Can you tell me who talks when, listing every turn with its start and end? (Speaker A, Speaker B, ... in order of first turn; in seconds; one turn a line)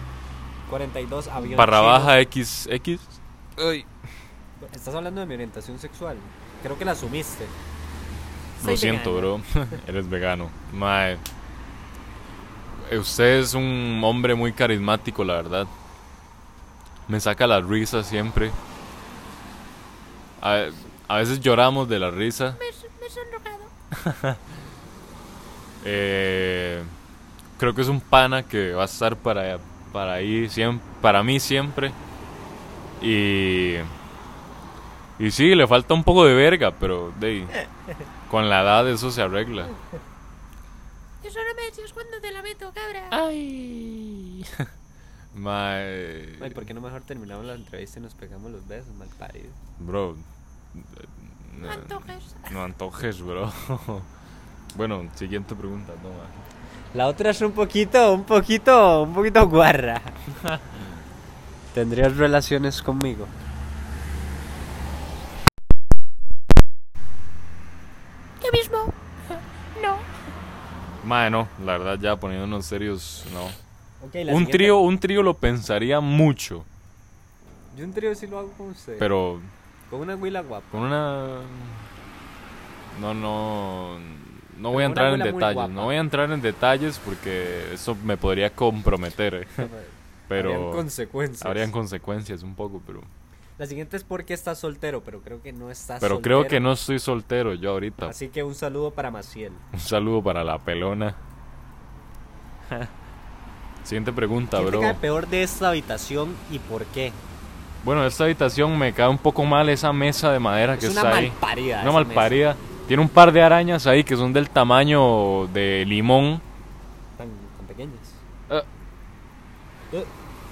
Speaker A: 0.7-2.1
Speaker B: 1.4-3.9
Speaker A: 4.6-7.5
Speaker B: 8.6-11.2
Speaker A: 8.6-9.3
Speaker B: 12.8-15.7
Speaker B: 17.1-18.6
Speaker B: 20.4-22.6
Speaker C: 22.6-23.7
Speaker B: 23.9-24.4
Speaker B: 25.8-26.9
Speaker B: 27.6-32.0
Speaker B: 33.0-33.9
Speaker B: 35.2-37.5
Speaker B: 38.3-39.7
Speaker C: 41.2-43.2
Speaker B: 43.1-44.7
Speaker B: 45.3-46.6
Speaker A: 46.4-49.6
Speaker B: 49.8-54.1
Speaker C: 51.6-52.5
Speaker B: 54.7-56.5
Speaker A: 56.9-60.1
Speaker B: 60.4-60.8
Speaker A: 61.7-63.3
Speaker C: 68.4-68.9
Speaker C: 69.7-70.0
Speaker B: 71.0-73.6
Speaker A: 74.0-74.8
Speaker B: 74.3-76.7
Speaker A: 77.7-79.1
Speaker B: 79.0-79.5
Speaker A: 79.9-80.7
Speaker B: 80.7-81.9
Speaker B: 82.9-89.7
Speaker A: 84.7-85.9
Speaker A: 89.6-91.7
Speaker B: 90.3-90.8
Speaker B: 91.4-93.1
Speaker A: 93.6-96.6
Speaker B: 96.0-98.1
Speaker A: 98.0-99.6
Speaker B: 99.7-101.2
Speaker B: 103.8-105.0
Speaker A: 104.5-107.2
Speaker B: 107.8-116.4
Speaker A: 110.8-112.4
Speaker A: 117.2-118.2